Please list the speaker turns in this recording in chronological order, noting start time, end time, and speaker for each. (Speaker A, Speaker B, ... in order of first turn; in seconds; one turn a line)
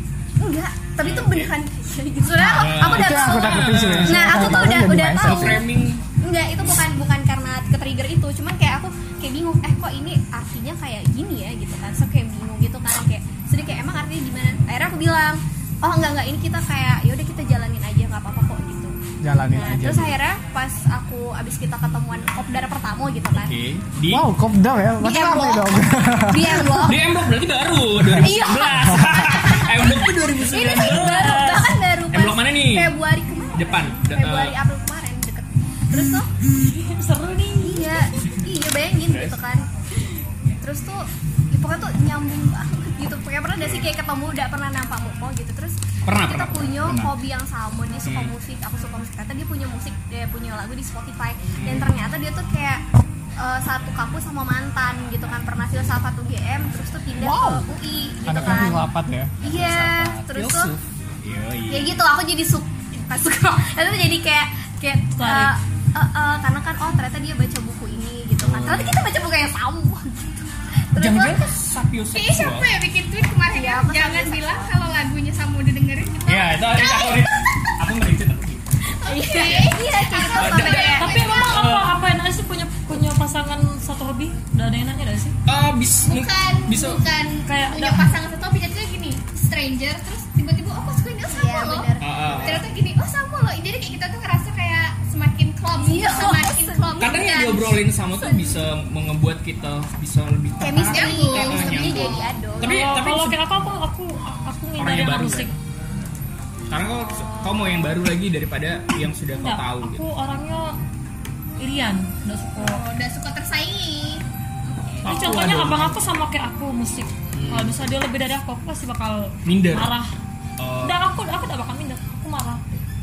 Speaker A: 0.4-5.7
Speaker B: 1.0-1.5
Speaker C: 2.3-5.6
Speaker B: 2.4-6.0
Speaker A: 6.2-18.9
Speaker C: 19.2-20.1
Speaker A: 19.5-23.5
Speaker B: 23.3-24.2
Speaker C: 24.1-26.9
Speaker A: 25.0-27.1
Speaker B: 26.8-32.9
Speaker A: 28.1-36.3
Speaker B: 33.5-34.5
Speaker D: 36.8-37.9
Speaker A: 37.6-39.6
Speaker B: 39.1-39.4
Speaker A: 40.6-52.8
Speaker B: 43.6-43.9
Speaker B: 46.0-47.1
Speaker B: 48.0-48.3
Speaker B: 51.6-52.0
Speaker A: 53.4-58.8
Speaker C: 57.2-57.6
Speaker C: 58.2-60.1
Speaker B: 58.3-58.7
Speaker A: 59.4-60.7
Speaker B: 59.5-62.0
Speaker A: 61.7-71.5
Speaker D: 65.2-65.5
Speaker B: 68.4-69.0
Speaker B: 71.0-72.7
Speaker E: 72.1-77.1
Speaker A: 73.5-74.7
Speaker B: 76.2-78.7
Speaker E: 79.0-81.6
Speaker A: 79.0-81.5
Speaker B: 79.4-79.8
Speaker B: 80.3-81.9
Speaker D: 81.0-85.3
Speaker B: 85.5-87.0
Speaker E: 86.1-97.7
Speaker D: 87.5-88.1
Speaker A: 91.2-92.7
Speaker B: 92.0-92.6
Speaker A: 95.8-98.6
Speaker B: 97.0-103.4
Speaker A: 100.6-102.8
Speaker E: 100.9-102.2
Speaker D: 102.6-105.5
Speaker B: 104.8-105.5
Speaker B: 106.7-110.0
Speaker A: 107.2-107.6
Speaker D: 109.4-110.7
Speaker D: 111.6-112.8
Speaker E: 112.6-114.2
Speaker B: 115.0-115.9
Speaker D: 115.0-120.1
Speaker B: 117.3-117.8
Speaker B: 119.5-119.9
Speaker B: 120.6-121.0
Speaker D: 120.8-122.6